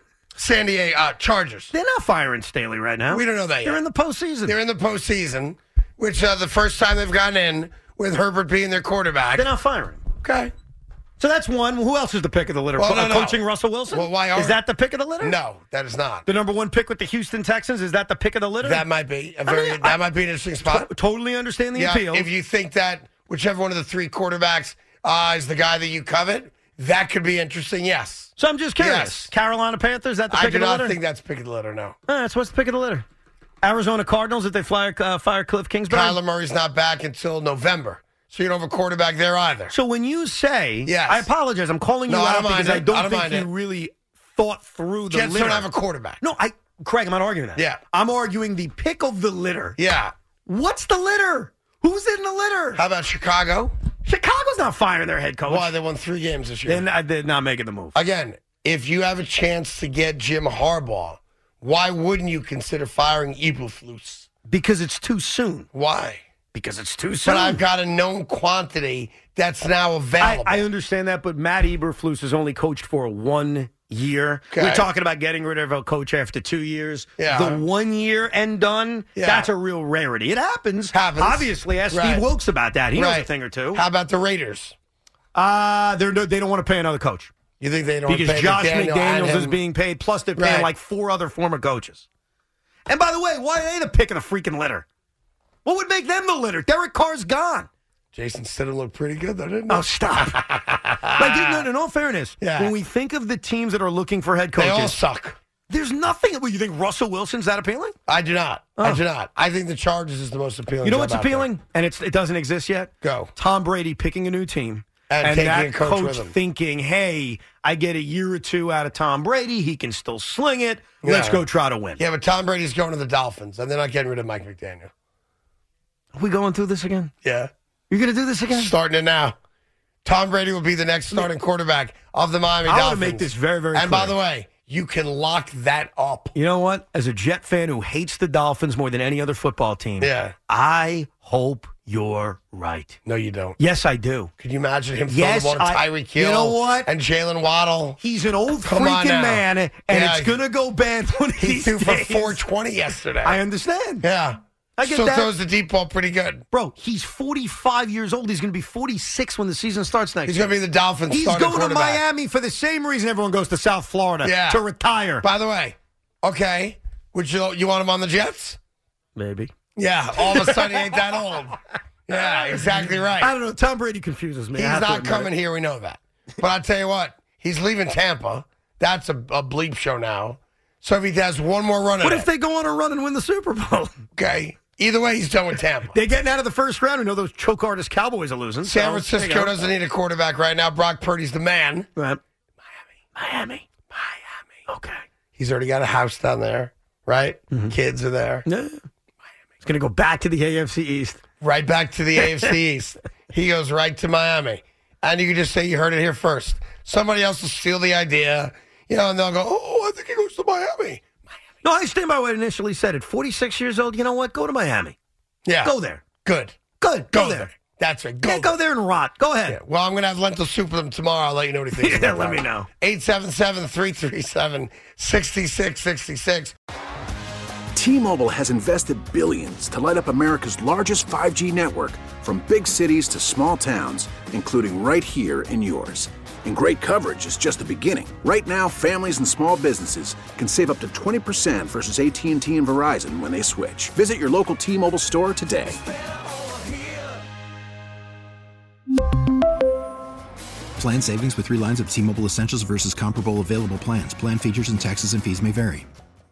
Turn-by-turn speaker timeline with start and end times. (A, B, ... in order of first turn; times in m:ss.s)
0:00.4-0:01.7 A
0:01.7-0:04.5 B
0:03.1-0:03.8 A
0:04.4-0:09.5 A
0:09.4-0:10.0 B
0:10.2-0:10.5 A
0:11.2-0:15.4 B
0:12.8-0:13.4 A
0:13.9-0:14.6 A
0:15.2-0:16.2 A
0:16.2-0:18.8 B
0:18.6-0:20.9 A
0:19.5-0:20.0 B
0:20.6-0:22.3 B
0:21.8-0:29.3 A
0:28.4-0:31.0 B
0:30.3-0:32.0 A
0:32.1-0:33.0 B
0:33.6-0:36.2 B
0:35.9-0:39.7 A
0:39.7-0:45.7 B
0:40.8-0:41.3 A
0:42.1-0:43.5 A
0:45.1-0:46.2 A
0:46.2-0:49.8 B
0:49.8-0:50.1 A
0:50.4-0:52.8 B
0:52.8-0:53.7 A
0:54.0-0:55.7 B
0:55.5-0:56.8 A
0:56.7-0:58.0 B
0:57.9-1:04.3 A
1:04.5-1:05.7 B
1:05.7-1:06.2 A
1:06.5-1:07.6 B
1:07.2-1:10.6 A
1:10.2-1:23.8 B
1:14.5-1:14.8 A
1:17.2-1:17.6 A
1:19.2-1:19.5 A
1:20.9-1:22.2 A
1:22.9-1:24.7 A
1:25.3-1:27.3 B
1:27.6-1:29.6 A
1:28.1-1:32.0 B
1:30.4-1:30.7 A
1:32.9-1:34.8 B
1:35.6-1:37.7 B
1:38.1-1:41.6 A
1:39.7-1:40.4 B
1:41.2-1:45.0 B
1:42.4-1:42.7 A
1:44.6-1:45.4 A
1:45.7-1:48.0 B
1:48.1-1:51.5 A
1:50.8-2:02.0 B
1:53.0-1:53.3 A
1:55.1-1:56.3 A
2:01.0-2:01.4 A
2:02.0-2:04.9 A
2:06.1-2:07.1 B
2:07.2-2:07.5 A
2:07.9-2:08.7 B
2:08.5-2:09.4 A
2:10.0-2:16.3 A
2:12.6-2:14.1 B
2:16.3-2:23.0 B
2:20.0-2:20.3 A
2:23.0-2:23.6 A
2:23.6-2:24.3 B
2:24.4-2:28.0 A
2:25.1-2:26.9 B
2:28.0-2:32.4 B
2:28.6-2:30.4 A
2:31.4-2:33.4 A
2:33.2-2:34.0 B
2:34.0-2:36.4 A
2:34.8-2:35.3 B
2:36.5-2:40.5 B
2:40.3-2:42.0 A
2:41.1-2:45.2 B
2:44.2-2:44.6 A
2:45.2-2:48.6 A
2:49.2-2:49.5 B
2:49.8-2:53.3 A
2:50.2-2:50.8 B
2:52.2-2:52.6 B
2:53.2-2:55.3 B
2:54.6-3:02.3 A
3:02.0-3:04.0 B
3:04.2-3:06.0 A
3:05.9-3:09.6 B
3:08.6-3:11.9 A
3:13.2-3:13.6 B
3:14.7-3:15.0 B
3:15.4-3:18.4 A
3:18.4-3:18.8 B
3:19.6-3:21.2 B
3:21.4-3:31.0 A
3:31.6-3:35.0 B
3:35.4-3:36.6 A
3:35.6-3:36.0 B
3:36.8-3:37.5 B
3:37.1-3:38.6 A
3:38.2-3:39.6 B
3:39.5-3:46.5 A
3:41.8-3:42.7 B
3:47.7-4:05.8 C
4:10.8-4:15.9 D